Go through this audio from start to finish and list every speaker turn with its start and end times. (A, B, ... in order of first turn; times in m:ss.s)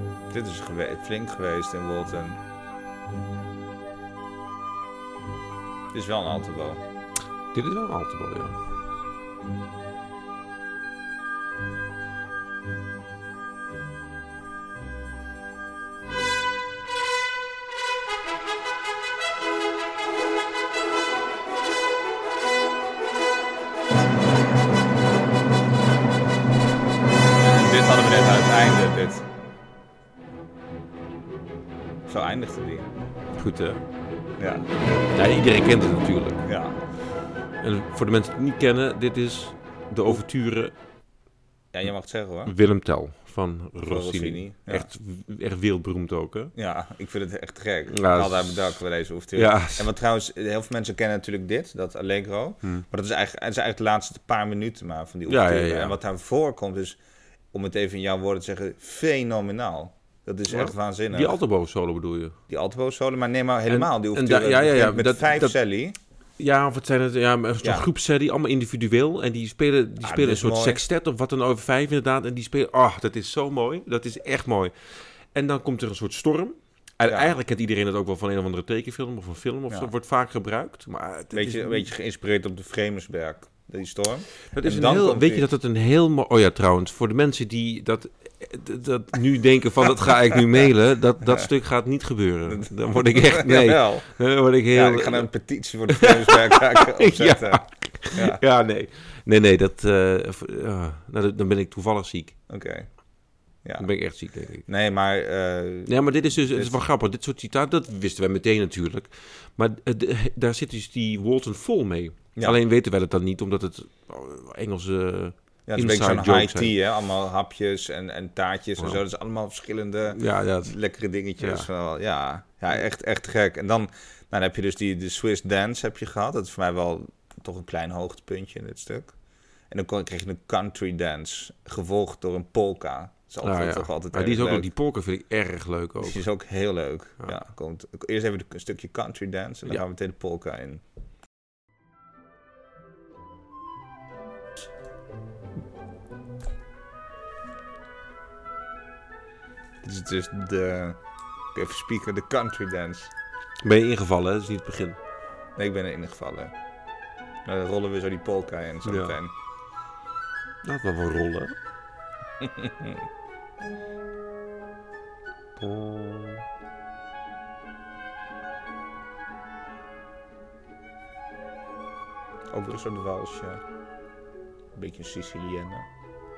0:00.3-0:02.4 A
0:05.9-0:06.8 A
0:07.5-0:08.6 B
0:27.4-0:29.2 A
0:32.1-0:32.9 A
0:33.4-0:33.8 B
0:34.4-0:34.7 A
0:35.1-0:36.4 B
0:36.5-0:36.8 A
0:37.6-0:40.7 B
0:41.7-0:42.5 A
0:42.4-0:46.5 B
0:43.9-0:44.9 A
0:46.6-0:57.0 A
0:47.9-0:48.8 B
0:49.3-0:49.9 B
0:55.3-0:56.0 B
0:57.5-1:01.4 A
1:00.5-1:02.4 B
1:02.5-1:05.9 A
1:03.7-1:05.6 B
1:06.4-1:14.7 B
1:10.0-1:10.8 A
1:15.3-1:21.9 B
1:17.0-1:17.4 A
1:21.3-1:25.5 A
1:24.5-1:35.3 B
1:30.3-1:30.6 A
1:32.5-1:34.1 A
1:34.7-1:38.4 A
1:35.9-1:42.4 B
1:42.5-1:42.9 A
1:43.6-1:43.9 A
1:43.8-1:44.6 B
1:44.6-1:46.8 A
1:45.9-1:56.7 B
1:55.7-2:09.1 A
2:00.1-2:00.8 B
2:01.4-2:01.7 B
2:09.7-2:14.7 A
2:13.4-2:16.2 B
2:16.0-2:20.8 A
2:29.8-2:31.0 A
2:31.5-2:33.1 A
2:33.6-2:35.0 B
2:35.6-2:36.5 A
2:37.4-2:39.3 A
2:38.8-2:39.2 B
2:40.6-2:41.5 B
2:42.4-2:43.0 A
2:45.6-2:46.4 B
2:52.5-2:53.6 A
2:54.8-2:55.9 A